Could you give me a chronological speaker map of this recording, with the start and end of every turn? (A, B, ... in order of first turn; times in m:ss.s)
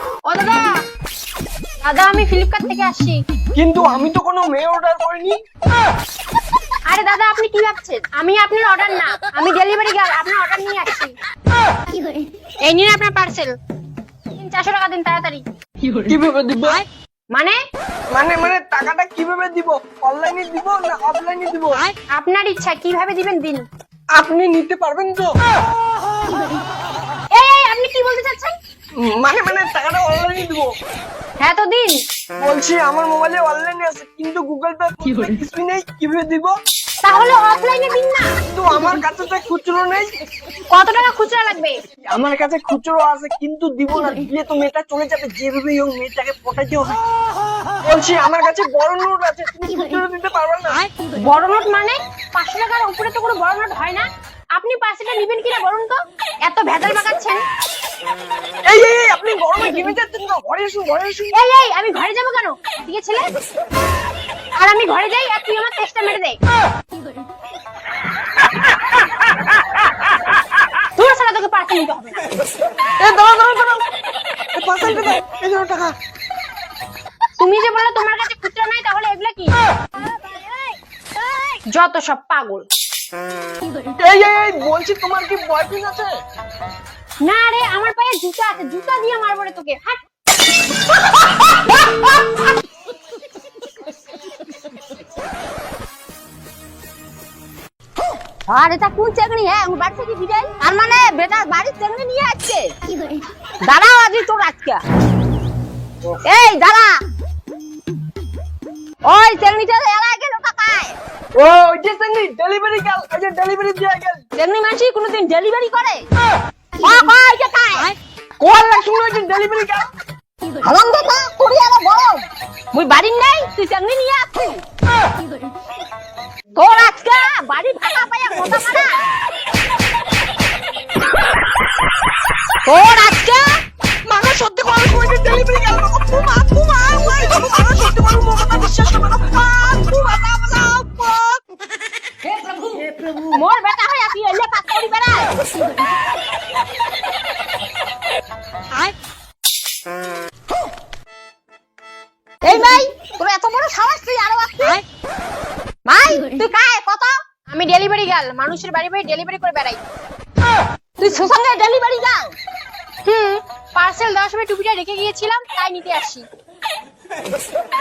0:00.3-0:00.8 A
0:01.8-0:03.2 A
0:03.6-0:05.4 B
0:06.9-0:11.2 A
0:12.6-0:13.5 A
0:14.3-0:15.4 A
0:16.0-0:16.8 B
0:17.3-0:17.6 A
0:18.1-0:21.8 B
0:22.1-0:23.7 A
0:24.1-0:25.3 B
0:27.4-0:28.6 A
0:29.0-0:30.7 B
0:31.4-0:32.0 A
0:32.4-0:36.5 B
0:37.0-0:38.3 A
0:38.4-0:40.2 B
0:40.7-0:41.8 A
0:42.1-0:47.0 B
0:47.8-0:50.8 B
0:51.2-0:57.4 A
0:58.7-1:01.4 B
1:01.3-1:03.3 A
1:04.6-1:06.4 A
1:11.0-1:12.3 A
1:13.0-1:13.8 B
1:14.5-1:15.9 B
1:17.4-1:19.6 A
1:21.7-1:22.7 A
1:24.0-1:26.1 B
1:27.2-1:30.0 A
1:38.5-1:42.7 C
1:43.6-1:44.8 C
1:46.2-1:47.0 C
1:49.0-1:51.0 C
1:51.4-1:54.2 B
1:54.4-1:56.1 C
1:56.8-1:57.9 C
1:58.4-1:59.9 B
2:00.6-2:04.6 C
2:06.6-2:08.9 C
2:12.6-2:13.6 C
2:14.1-2:21.4 B
2:22.6-2:25.3 C
2:32.4-2:34.8 C
2:35.9-2:37.2 C
2:37.5-2:39.8 A
2:41.0-2:42.4 C
2:43.0-2:46.3 A